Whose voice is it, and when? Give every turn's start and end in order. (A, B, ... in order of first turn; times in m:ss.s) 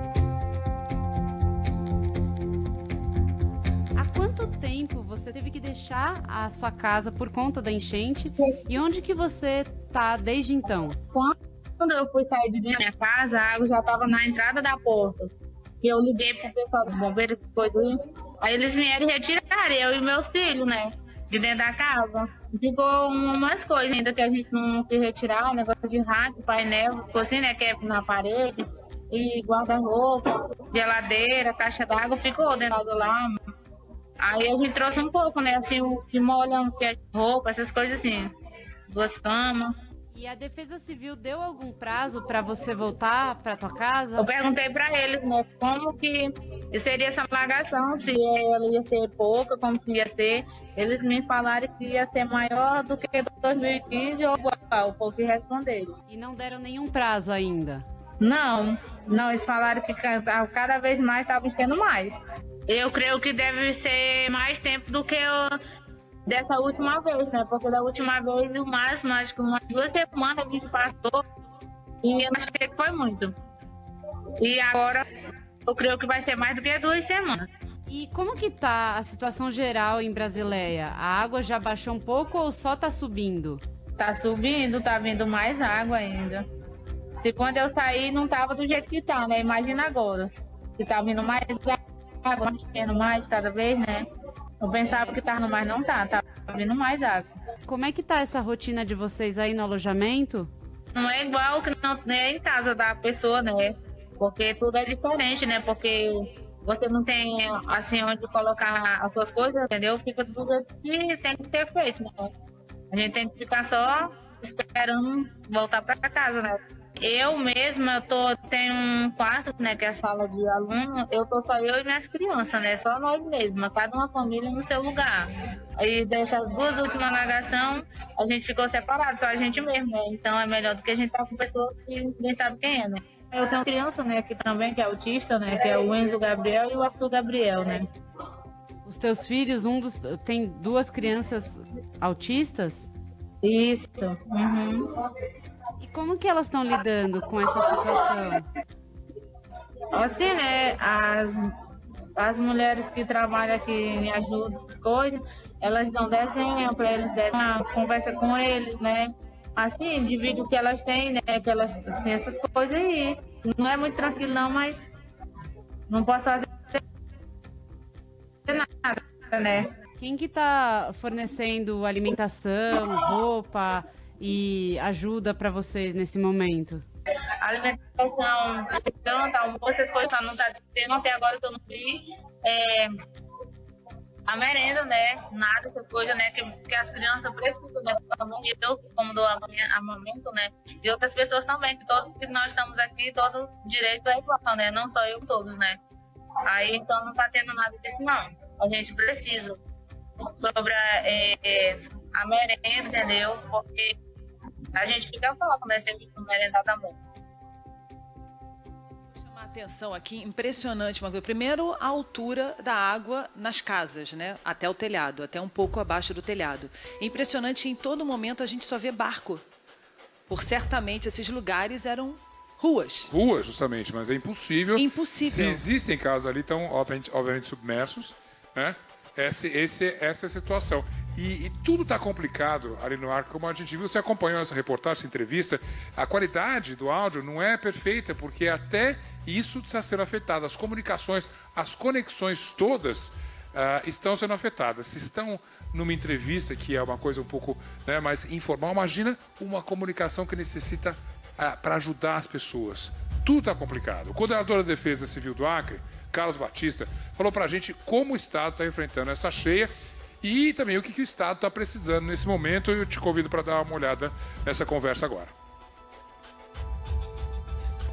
0:04.0-0:11.0 A
0:11.8-0:15.3 B
0:15.8-0:33.3 B
0:34.2-0:38.3 B
0:38.9-0:39.7 B
0:40.1-0:44.4 A
0:44.4-0:55.9 B
0:56.1-0:57.9 A
0:58.3-1:05.6 B
1:06.3-1:11.2 B
1:12.0-1:13.4 B
1:14.4-1:15.1 B
1:15.7-1:17.5 B
1:17.9-1:23.6 A
1:24.0-1:26.4 B
1:27.2-1:30.3 B
1:30.8-1:34.0 B
1:34.7-1:37.3 B
1:37.7-1:40.5 A
1:41.0-1:52.3 B
1:52.9-2:05.3 B
2:05.8-2:17.9 B
2:18.9-2:22.9 A
2:23.5-2:24.8 B
2:25.8-2:28.4 A
2:30.0-2:31.4 B
2:32.2-2:44.9 B
2:45.9-2:46.8 B
2:48.5-2:49.7 B
2:50.0-2:56.8 A
2:57.4-3:02.9 B
3:04.3-3:15.8 B
3:16.5-3:19.6 B
3:20.4-3:23.9 B
3:24.8-3:27.0 B
3:29.1-3:39.4 C
3:40.3-3:43.1 C
3:43.1-4:19.7 D
3:44.8-3:45.6 C
4:20.2-4:25.3 D